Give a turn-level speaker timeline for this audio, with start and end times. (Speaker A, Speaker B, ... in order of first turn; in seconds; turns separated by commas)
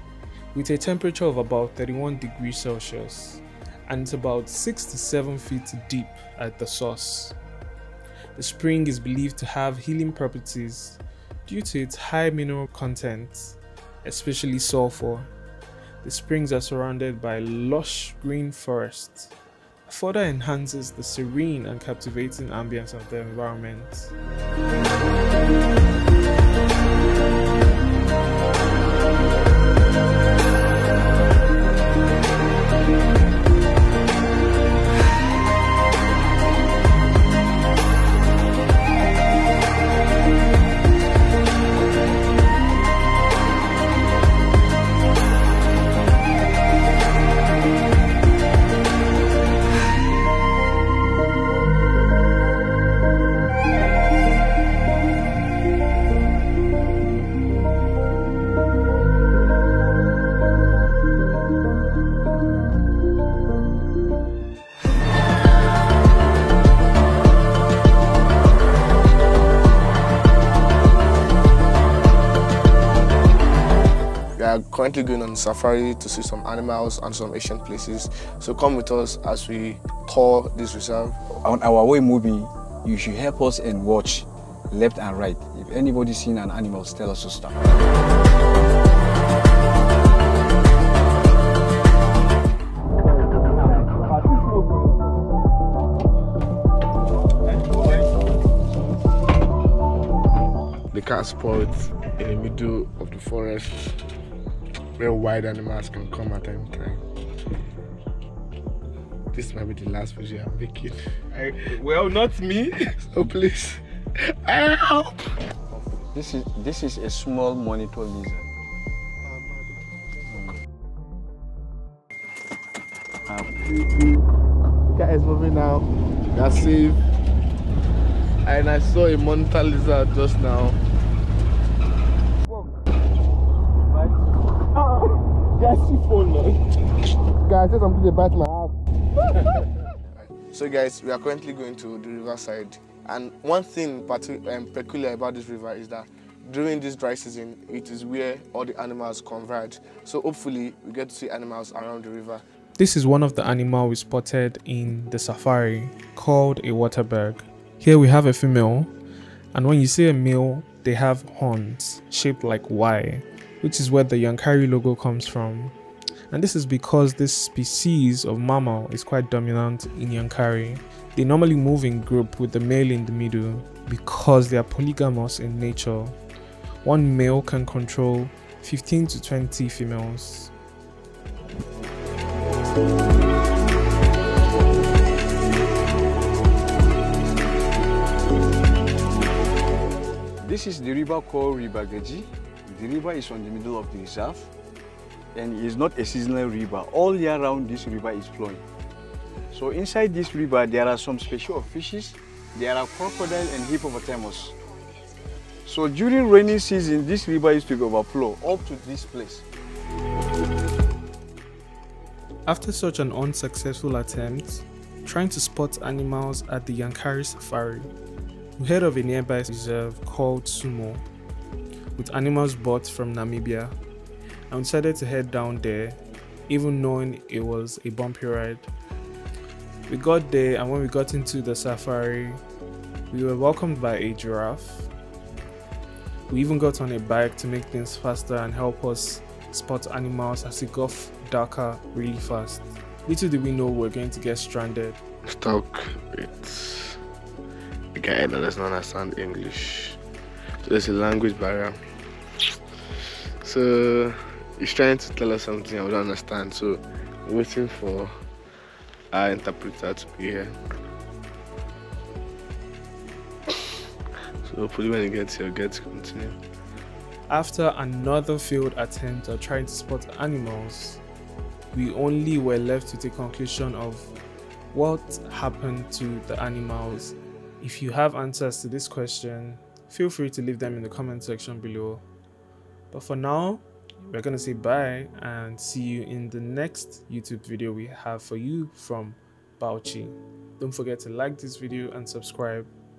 Speaker A: 0.5-7.3, Speaker A: 8.3-15.3, Speaker A: 16.0-19.3, Speaker A: 19.9-24.1, Speaker B: 74.4-81.2, Speaker C: 81.4-87.6, Speaker B: 100.9-104.0, Speaker B: 105.0-107.0, Speaker B: 109.3-111.0, Speaker A: 111.4-112.8, Speaker B: 113.0-113.8, Speaker B: 114.4-115.2, Speaker C: 116.0-118.5, Speaker B: 119.2-120.1, Speaker C: 120.3-120.5, Speaker C: 123.3-124.2, Speaker B: 124.9-127.0, Speaker B: 128.4-130.8, Speaker B: 134.7-136.6, Speaker B: 137.4-138.8, Speaker B: 140.1-152.4, Speaker A: 152.8-158.9, Speaker A: 159.5-165.7, Speaker A: 166.3-176.2, Speaker A: 176.8-180.5, Speaker C: 190.4-194.5, Speaker C: 195.3-198.6, Speaker C: 199.5-204.6, Speaker C: 205.7-209.4, Speaker A: 212.4-217.9, Speaker A: 218.6-221.0, Speaker A: 221.9-223.7, Speaker A: 224.5-226.0, Speaker A: 226.5-228.7, Speaker A: 229.9-232.4, Speaker A: 233.1-234.9, Speaker A: 236.3-245.0, Speaker B: 245.3-247.0, Speaker B: 247.9-250.0, Speaker B: 250.6-251.8, Speaker B: 253.4-258.1, Speaker B: 259.1-260.6, Speaker B: 264.4-266.4, Speaker A: 267.3-271.0, Speaker A: 271.7-274.1, Speaker A: 274.7-282.0, Speaker A: 282.9-292.7